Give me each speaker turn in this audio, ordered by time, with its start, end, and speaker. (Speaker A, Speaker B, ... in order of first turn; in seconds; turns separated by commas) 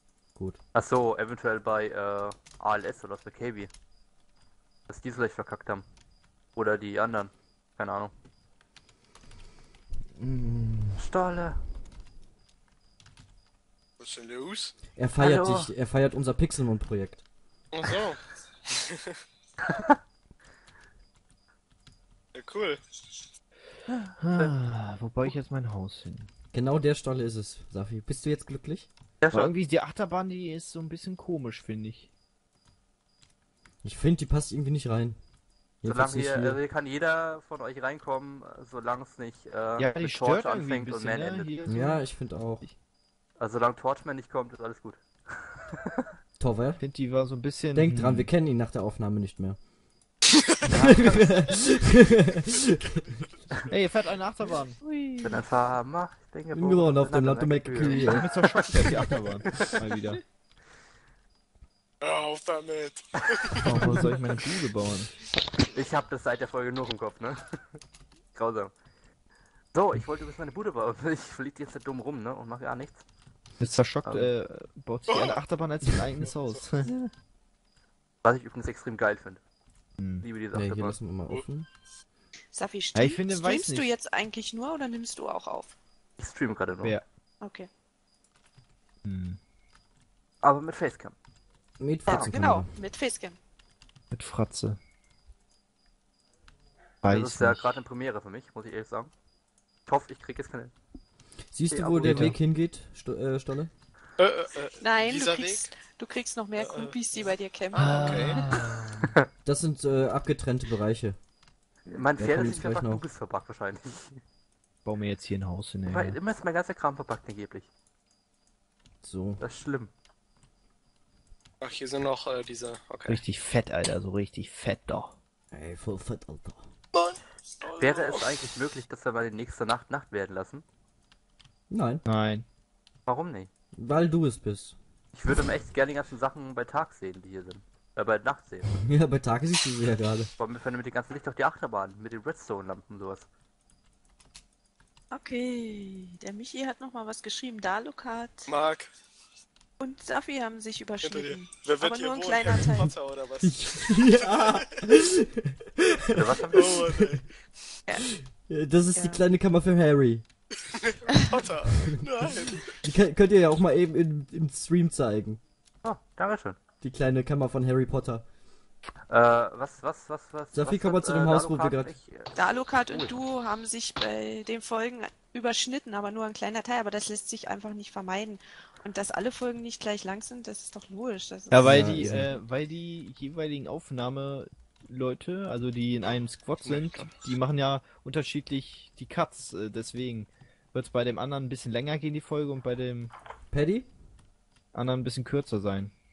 Speaker A: 0.7-3.7, Speaker A: 4.9-5.8, Speaker A: 6.5-8.1, Speaker B: 10.2-11.0, Speaker A: 11.0-11.6, Speaker C: 14.0-14.7, Speaker B: 14.9-17.2, Speaker A: 15.2-15.7, Speaker C: 17.7-19.1, Speaker A: 19.7-19.9, Speaker C: 22.3-22.8, Speaker D: 24.2-26.3, Speaker B: 26.5-28.9, Speaker A: 29.2-29.5, Speaker D: 29.3-32.1, Speaker B: 33.8-35.2, Speaker B: 35.8-36.6, Speaker A: 35.9-41.5, Speaker D: 39.8-42.0, Speaker B: 41.6-42.7, Speaker A: 43.4-46.0, Speaker B: 46.4-46.8, Speaker D: 46.8-48.3, Speaker B: 47.7-49.6, Speaker C: 50.3-51.3, Speaker A: 50.7-51.1, Speaker B: 50.8-53.1, Speaker C: 53.1-53.6, Speaker D: 53.7-54.8, Speaker E: 54.8-55.4, Speaker A: 55.2-58.9, Speaker B: 56.5-58.3, Speaker D: 58.1-60.2, Speaker C: 62.0-64.2, Speaker D: 63.6-65.1, Speaker A: 65.7-67.4, Speaker A: 68.3-68.7, Speaker A: 69.7-73.0, Speaker D: 73.6-77.1, Speaker A: 74.0-74.3, Speaker C: 75.1-75.4, Speaker A: 78.2-79.4, Speaker D: 80.0-80.2, Speaker A: 80.2-81.0, Speaker B: 80.5-81.7, Speaker E: 82.5-85.7, Speaker D: 82.9-83.9, Speaker A: 86.2-87.0, Speaker E: 87.4-87.7, Speaker D: 89.0-89.4, Speaker A: 90.4-91.1, Speaker B: 91.8-92.7, Speaker A: 92.0-92.3, Speaker E: 92.1-93.4, Speaker D: 94.1-94.8, Speaker D: 97.0-97.7, Speaker A: 97.1-99.1, Speaker A: 99.9-100.7, Speaker B: 101.5-103.7, Speaker A: 101.7-102.3, Speaker D: 102.0-102.4, Speaker C: 104.2-105.7, Speaker E: 104.8-108.5, Speaker C: 106.5-108.7, Speaker D: 107.7-109.1, Speaker B: 109.4-111.2, Speaker A: 111.8-114.2, Speaker B: 112.2-113.0, Speaker D: 114.8-116.2, Speaker A: 115.8-117.7, Speaker B: 119.0-119.4, Speaker A: 119.4-119.9, Speaker C: 121.6-123.2, Speaker D: 123.1-125.1, Speaker B: 125.5-126.6, Speaker C: 126.9-128.4, Speaker A: 127.8-130.6, Speaker B: 131.7-132.0, Speaker D: 132.1-132.4, Speaker A: 133.1-133.5, Speaker B: 133.7-134.8, Speaker A: 135.1-138.7, Speaker B: 138.8-140.3, Speaker A: 140.4-143.2, Speaker E: 145.1-148.5, Speaker C: 148.5-148.9, Speaker E: 149.8-152.9, Speaker C: 151.0-154.7, Speaker B: 153.4-157.1, Speaker A: 156.2-156.7, Speaker C: 156.5-157.2, Speaker B: 158.2-160.2, Speaker E: 158.9-159.2, Speaker C: 160.7-162.8, Speaker E: 161.1-161.3, Speaker B: 161.8-165.4, Speaker A: 165.8-166.6, Speaker B: 166.8-168.2, Speaker A: 169.1-173.1, Speaker B: 170.5-172.0, Speaker E: 172.3-182.2, Speaker D: 181.5-193.1, Speaker B: 181.6-182.3, Speaker C: 186.6-187.1, Speaker B: 193.5-193.9, Speaker D: 194.7-195.9